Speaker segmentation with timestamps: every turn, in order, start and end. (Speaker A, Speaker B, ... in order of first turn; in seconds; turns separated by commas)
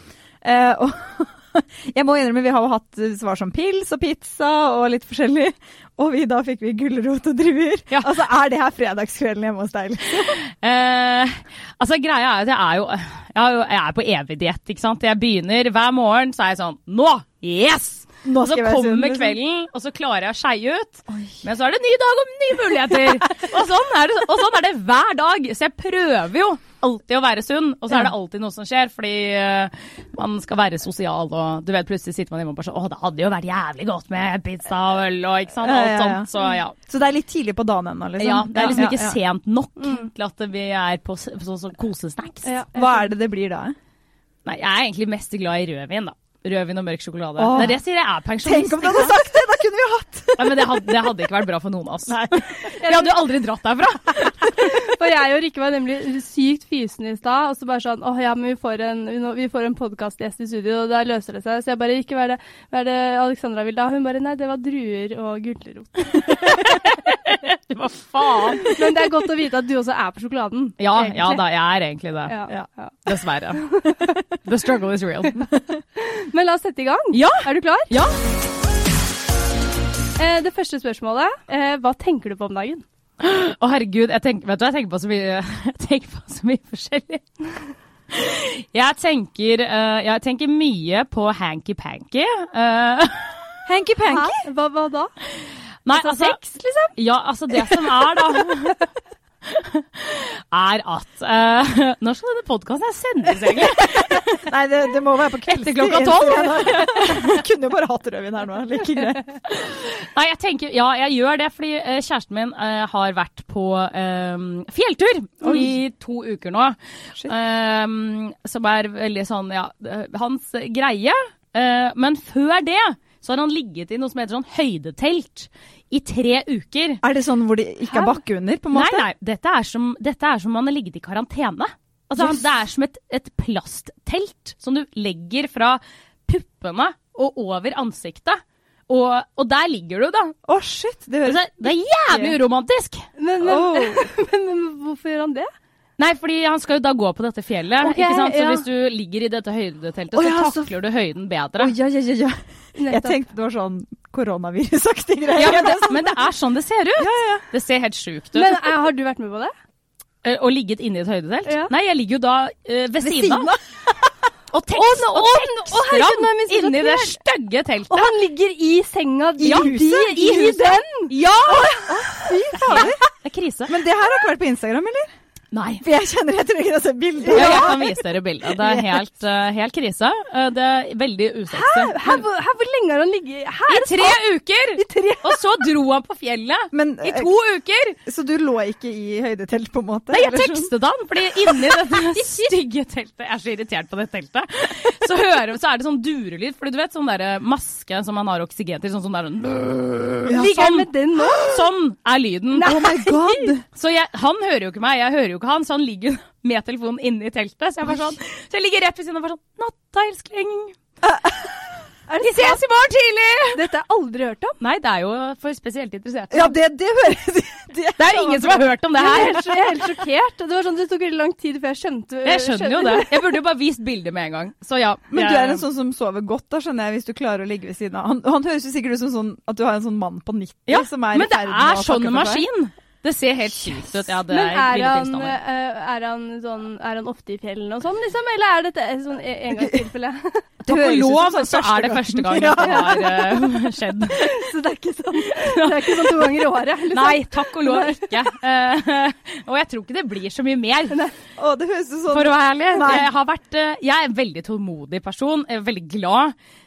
Speaker A: 0.4-10.4, Speaker B: 10.2-36.7, Speaker A: 18.2-19.4, Speaker A: 21.1-21.4, Speaker A: 35.6-39.2, Speaker B: 38.2-42.5, Speaker C: 39.8-40.1, Speaker C: 42.4-43.1, Speaker A: 42.7-43.7, Speaker B: 44.4-49.3, Speaker A: 47.4-47.8, Speaker A: 48.4-51.0, Speaker B: 50.4-54.6, Speaker A: 52.1-52.6, Speaker C: 52.8-53.3, Speaker C: 54.6-66.6, Speaker B: 66.1-68.7, Speaker C: 68.6-71.4, Speaker B: 70.8-72.4, Speaker C: 72.3-74.2, Speaker B: 73.0-75.5, Speaker C: 76.0-78.0, Speaker B: 77.1-78.2, Speaker C: 80.2-82.8, Speaker B: 83.2-87.2, Speaker B: 88.1-93.3, Speaker A: 93.7-94.4, Speaker C: 94.0-95.1, Speaker B: 95.8-96.4, Speaker C: 95.9-96.9, Speaker B: 96.9-98.8, Speaker C: 97.6-98.7, Speaker B: 99.4-104.4, Speaker A: 104.4-109.3, Speaker B: 105.5-107.3, Speaker B: 109.5-127.0, Speaker A: 115.4-115.7, Speaker A: 127.0-129.1, Speaker B: 128.7-140.3, Speaker A: 132.2-132.4, Speaker A: 140.4-141.4, Speaker B: 141.2-143.0, Speaker A: 142.1-142.3, Speaker C: 143.2-145.5, Speaker A: 143.4-144.1, Speaker B: 146.0-151.7, Speaker C: 147.8-148.6, Speaker A: 150.1-150.7, Speaker A: 151.6-156.2, Speaker C: 152.8-153.1, Speaker B: 155.3-158.7, Speaker A: 157.0-157.4, Speaker C: 158.3-159.5, Speaker B: 160.2-163.5, Speaker A: 163.0-163.6, Speaker B: 164.5-168.1, Speaker C: 164.7-167.2, Speaker C: 167.9-172.9, Speaker A: 169.4-170.8, Speaker B: 169.4-169.7, Speaker B: 170.2-170.5, Speaker B: 171.1-173.8, Speaker A: 171.8-173.0, Speaker A: 173.7-175.1, Speaker B: 175.5-175.8, Speaker A: 175.8-177.8, Speaker C: 177.3-177.9, Speaker B: 177.3-182.2, Speaker A: 178.6-179.0, Speaker C: 181.5-184.2, Speaker B: 183.7-188.0, Speaker C: 184.8-185.5, Speaker A: 186.7-187.3, Speaker A: 188.0-190.7, Speaker B: 190.1-202.8, Speaker C: 192.1-192.5, Speaker C: 200.3-201.5, Speaker C: 202.5-203.5, Speaker A: 202.6-203.6, Speaker B: 203.7-210.8, Speaker A: 211.0-211.4, Speaker C: 212.1-212.6, Speaker B: 212.2-213.6, Speaker C: 213.5-214.6, Speaker B: 214.6-216.5, Speaker A: 216.3-218.7, Speaker B: 218.0-219.6, Speaker C: 218.9-223.4, Speaker A: 219.3-219.8, Speaker B: 222.2-225.6, Speaker A: 225.1-232.4, Speaker B: 230.7-235.4, Speaker C: 234.3-240.5, Speaker A: 239.5-239.8, Speaker B: 240.6-244.3, Speaker A: 240.7-243.2, Speaker C: 242.6-243.4, Speaker C: 244.1-248.2, Speaker B: 245.3-251.1, Speaker A: 251.4-253.1, Speaker B: 252.1-256.3